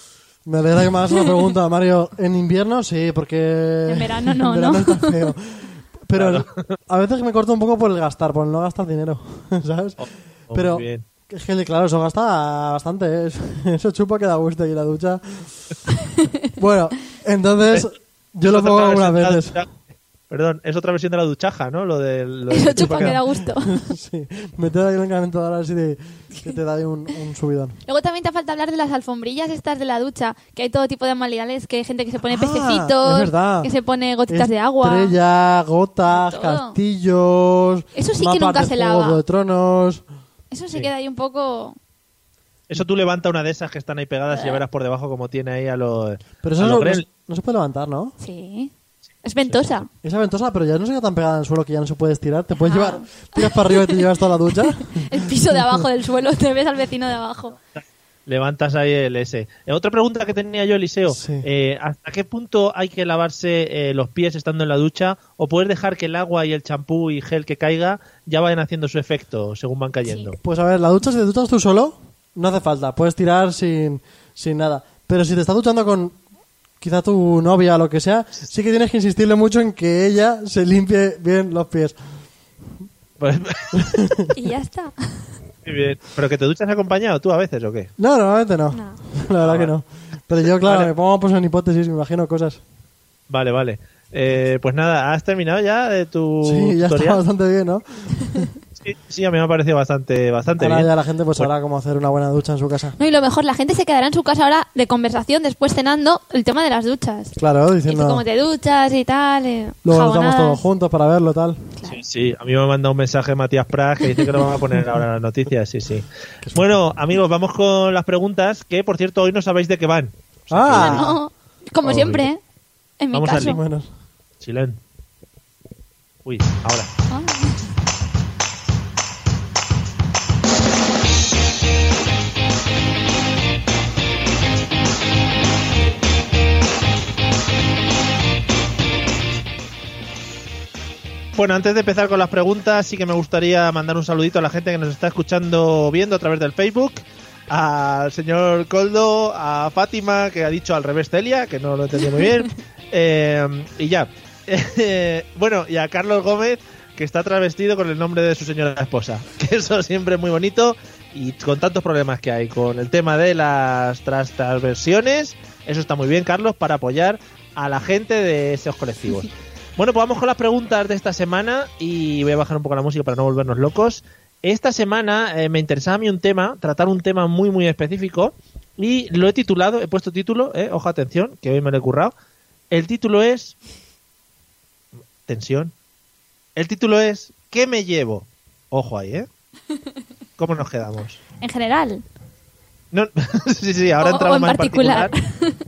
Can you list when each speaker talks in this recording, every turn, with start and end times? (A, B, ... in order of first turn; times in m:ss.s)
0:00.4-0:10.0 A
0:03.9-0:05.3 B
0:06.1-0:06.6 C
0:10.0-0:11.0 C
0:10.5-0:15.5 A
0:16.0-0:16.3 B
0:16.6-0:19.6 A
0:18.4-0:19.7 C
0:20.3-0:23.2 C
0:22.5-0:23.8 B
0:22.8-0:27.8 A
0:27.8-0:35.1 B
0:32.3-0:33.7 A
0:34.3-0:40.0 A
0:36.1-0:36.8 B
0:38.0-0:39.2 B
0:40.5-0:41.8 B
0:42.7-0:47.0 C
0:44.3-0:44.6 B
0:46.4-0:48.1 A
0:48.2-0:48.7 B
0:49.2-0:49.9 B
0:49.4-0:49.7 C
0:50.0-0:55.8 A
0:52.6-0:54.0 B
0:54.9-0:57.6 B
0:58.3-1:10.4 C
1:01.1-1:01.4 A
1:10.4-1:16.2 A
1:16.8-1:22.0 A
1:23.2-1:24.0 C
1:23.7-1:24.3 A
1:24.3-1:25.3 B
1:25.6-1:27.9 C
1:28.0-1:32.6 A
1:28.7-1:29.0 B
1:29.4-1:29.7 C
1:30.6-1:30.9 C
1:33.3-1:37.2 C
1:36.4-1:38.5 A
1:38.8-1:41.5 C
1:40.6-1:43.0 A
1:43.0-1:47.3 B
1:47.4-1:48.2 A
1:47.9-1:50.6 B
1:49.8-1:51.7 A
1:51.9-2:01.1 C
2:00.5-2:01.1 A
2:00.7-2:02.4 B
2:01.8-2:02.3 C
2:03.0-2:03.6 B
2:03.1-2:03.6 C
2:03.3-2:03.9 A
2:04.4-2:04.8 C
2:06.2-2:06.9 C
2:07.1-2:07.6 B
2:21.4-3:02.1 C
3:02.7-3:03.6 C
3:05.3-3:05.7 C
3:06.6-3:09.3 C
3:10.4-3:11.2 C
3:11.4-3:12.0 B
3:12.9-3:15.1 C
3:14.0-3:15.6 B